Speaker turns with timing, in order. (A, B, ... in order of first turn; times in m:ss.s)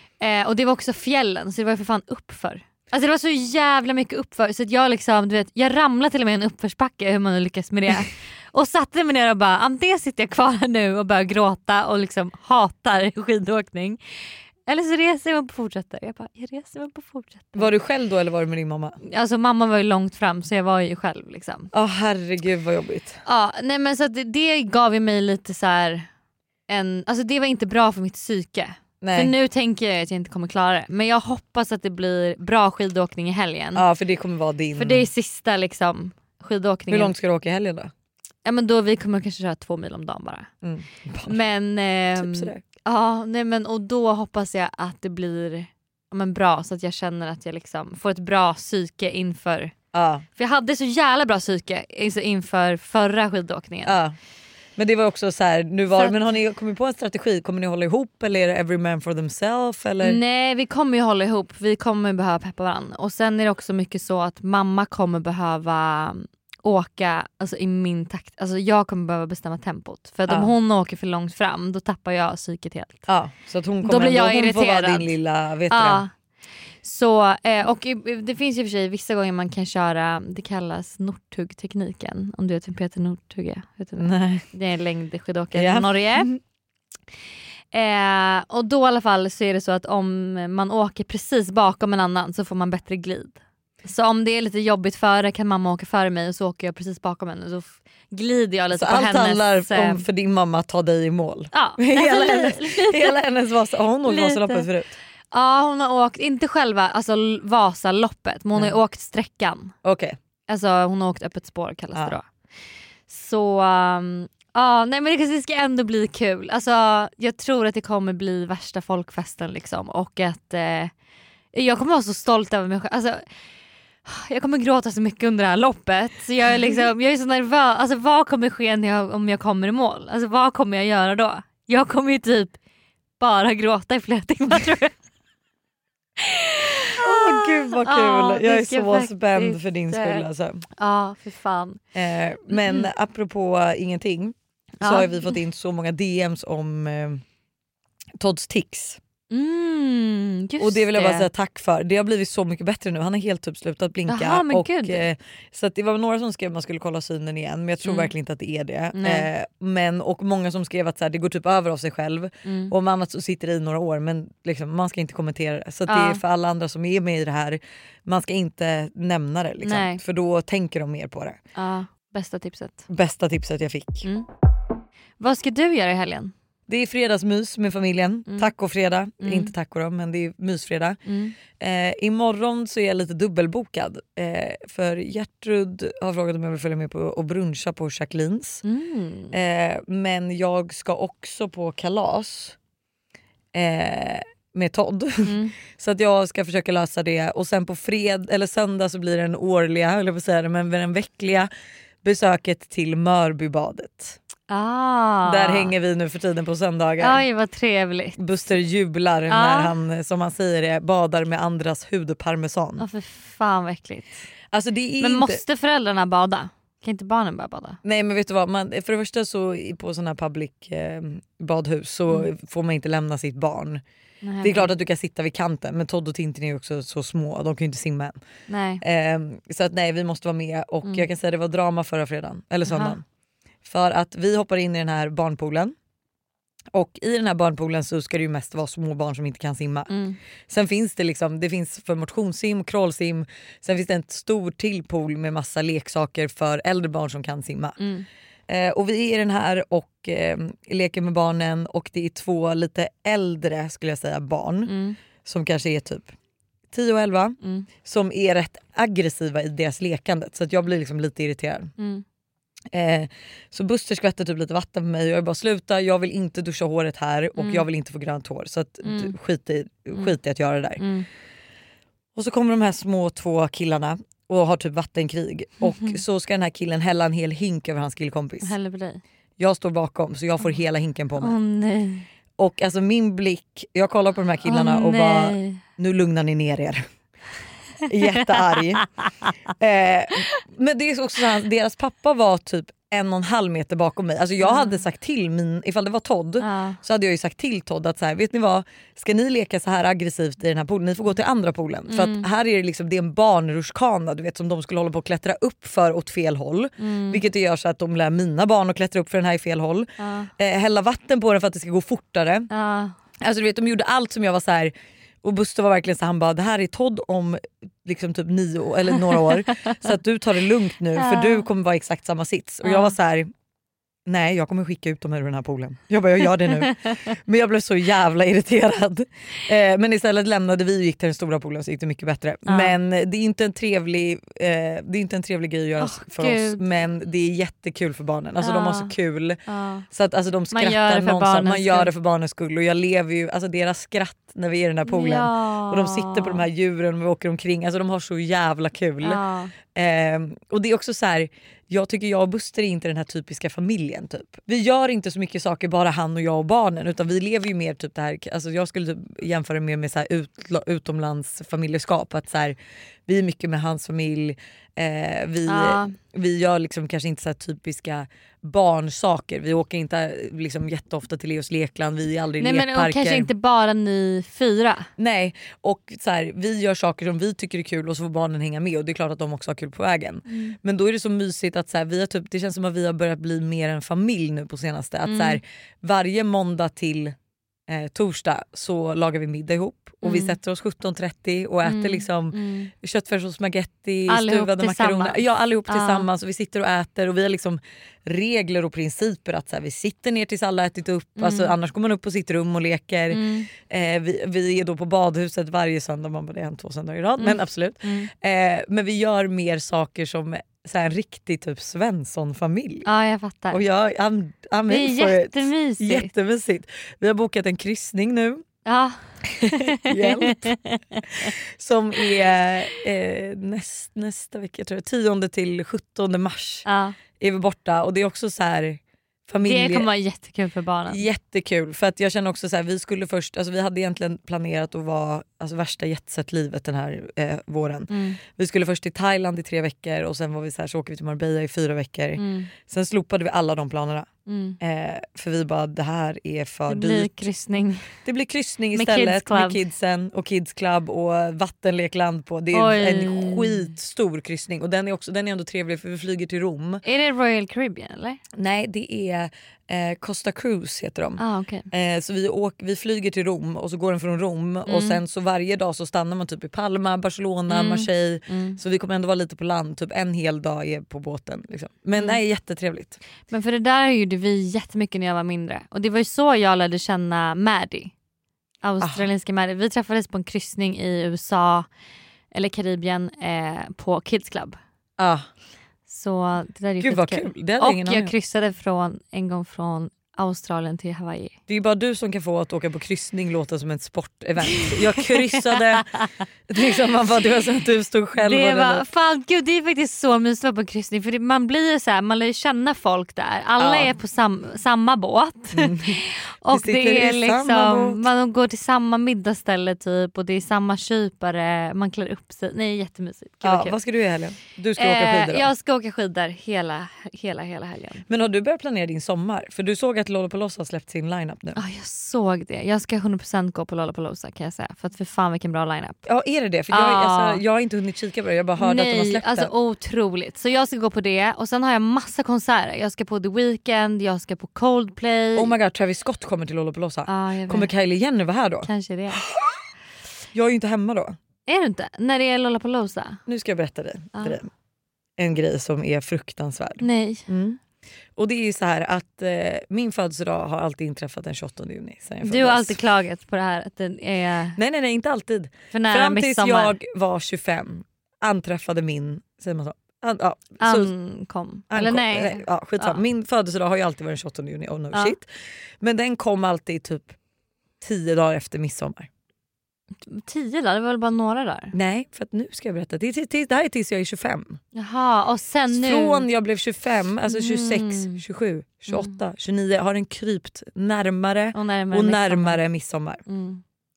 0:00.2-0:14.0 A
0:14.6-0:17.7 A
0:17.5-0:19.0 B
0:19.0-0:21.7 A
0:21.7-0:23.2 B
0:23.2-0:26.1 A
0:26.7-0:33.8 A
0:29.0-0:29.3 B
0:33.7-0:35.0 B
0:34.7-0:37.1 A
0:36.9-0:37.9 B
0:38.4-0:40.5 A
0:40.6-0:41.4 B
0:41.2-0:49.7 A
0:42.2-0:42.6 B
0:49.9-0:50.2 B
0:50.3-0:54.0 A
0:53.8-0:54.2 B
0:54.8-1:00.2 B
1:00.0-1:13.1 A
1:10.3-1:10.5 B
1:13.1-1:16.0 B
1:13.8-1:15.1 A
1:15.7-1:16.1 A
1:16.8-1:26.3 A
1:24.0-1:24.4 B
1:25.5-1:26.4 B
1:27.7-1:40.0 A
1:38.7-1:45.0 B
1:41.5-1:43.2 A
1:44.0-1:44.6 A
1:45.3-1:49.7 A
1:49.8-1:50.2 B
1:50.5-1:52.2 A
1:53.1-2:00.9 A
2:01.5-2:03.2 A
2:04.0-2:12.6 A
2:13.2-2:14.9 A
2:16.2-2:21.8 A
2:17.0-2:20.6 B
2:21.9-2:27.2 B
2:24.8-2:25.3 A
2:28.2-2:29.0 B
2:29.3-2:31.3 A
2:30.6-2:51.4 B
2:34.1-2:35.1 A
2:37.8-2:38.1 A
2:38.9-2:39.3 A
2:42.4-2:42.7 A
2:45.9-2:46.2 A
2:49.6-2:50.0 A
2:51.5-2:52.8 A
2:52.9-2:54.0 B
2:55.2-2:56.3 A
2:56.7-3:01.0 B
2:59.2-2:59.5 A
3:01.0-3:01.4 A
3:01.6-3:08.6 B
3:08.6-3:09.4 A
3:09.3-3:12.6 B
3:13.5-3:21.5 B
3:15.2-3:15.5 A
3:22.0-3:24.2 B
3:24.5-3:25.7 A
3:25.2-3:27.2 B
3:27.0-3:28.2 A
3:28.2-3:32.8 B
3:29.3-3:29.8 A
3:32.8-3:34.2 A
3:34.5-3:35.4 B
3:35.0-3:37.8 A
3:37.8-3:43.8 B
3:44.2-3:44.7 A
3:44.4-3:48.2 B
3:48.5-3:48.8 A
3:48.8-3:53.0 B
3:52.6-3:53.0 A
3:53.6-3:55.7 B
3:56.7-3:59.9 B
3:59.9-4:00.2 A
4:00.5-4:07.8 B
4:07.8-4:08.1 A
4:08.5-4:16.1 B
4:14.6-4:15.0 A
4:16.7-4:21.7 B
4:17.4-4:17.7 A
4:21.8-4:22.0 A
4:22.7-4:30.8 B
4:27.4-4:27.6 A
4:28.8-4:29.1 A
4:30.8-4:31.0 A
4:32.1-4:38.5 B
4:38.4-4:39.0 A
4:39.4-4:41.4 B
4:41.2-4:42.0 A
4:42.4-4:46.8 B
4:44.4-4:45.6 A
4:47.9-4:48.9 B
4:49.5-5:12.5 B
4:54.4-4:54.8 A
4:56.4-4:56.8 A
5:01.9-5:02.3 A
5:06.8-5:07.2 A
5:10.0-5:10.3 A
5:12.5-5:12.9 A
5:13.2-5:23.3 B
5:20.9-5:21.4 A
5:22.6-5:22.9 A
5:24.1-5:39.4 B
5:32.5-5:32.7 A
5:35.8-5:36.6 A
5:38.4-5:38.9 A
5:39.5-5:39.8 A
5:39.9-5:49.2 B
5:40.5-5:41.9 A
5:44.8-5:46.5 A
5:49.0-5:49.5 A
5:49.7-6:02.6 B
6:03.1-6:13.3 B
6:05.4-6:05.9 A
6:12.4-6:14.9 A
6:15.0-6:27.1 B
6:20.3-6:20.6 A
6:25.0-6:25.4 A
6:27.7-6:52.9 B
6:30.0-6:30.3 A
6:31.6-6:32.7 A
6:34.1-6:36.1 A
6:41.2-6:41.5 A
6:43.1-6:43.5 A
6:47.2-6:48.1 A
6:52.8-6:53.6 A
6:53.5-6:58.4 B
6:54.7-6:56.1 A
6:58.6-7:01.3 A
6:59.4-7:00.5 B
7:01.6-7:06.6 B
7:06.6-7:07.0 A
7:07.2-7:09.9 B
7:09.4-7:11.0 A
7:10.9-7:24.1 B
7:17.9-7:18.2 A
7:22.2-7:22.5 A
7:24.2-7:24.6 A
7:24.6-7:27.3 B
7:26.7-7:27.9 A
7:28.0-7:36.8 B
7:28.7-7:29.6 A
7:32.5-7:33.7 A
7:36.8-7:38.2 A
7:38.4-7:53.0 B
7:41.2-7:41.7 A
7:44.6-7:45.0 A
7:47.5-7:48.6 A
7:51.9-7:52.2 A
7:53.3-7:57.9 A
7:58.6-8:01.7 A
8:02.3-8:04.6 A
8:05.0-8:05.2 B
8:05.9-8:11.3 A
8:06.8-8:08.1 B
8:11.5-8:15.9 B
8:14.6-8:16.0 A
8:16.5-8:18.8 B
8:18.2-8:33.8 A
8:23.6-8:23.9 B
8:25.5-8:28.1 B
8:33.4-8:35.5 B
8:34.8-8:38.0 A
8:38.1-8:41.6 B
8:41.6-8:46.0 A
8:46.0-8:49.5 B
8:46.7-8:47.4 A
8:48.6-8:55.5 A
8:55.4-8:58.7 B
8:57.0-8:57.7 A
8:58.6-8:59.3 A
8:59.2-8:59.5 B
9:00.3-9:01.2 B
9:01.4-9:03.2 A
9:03.3-9:04.5 B
9:05.2-9:07.6 B
9:06.8-9:07.3 A
9:08.2-9:12.8 B
9:12.2-9:14.6 A
9:14.6-9:20.9 B
9:15.7-9:16.8 A
9:20.6-9:23.0 A
9:21.7-9:25.2 B
9:25.8-9:27.2 B
9:27.8-9:29.1 B
9:30.0-9:31.7 A
9:31.7-9:34.6 B
9:34.7-9:36.3 A
9:35.7-9:43.2 B
9:37.2-9:38.2 A
9:38.9-9:39.1 A
9:41.5-9:42.6 A
9:43.2-9:43.6 A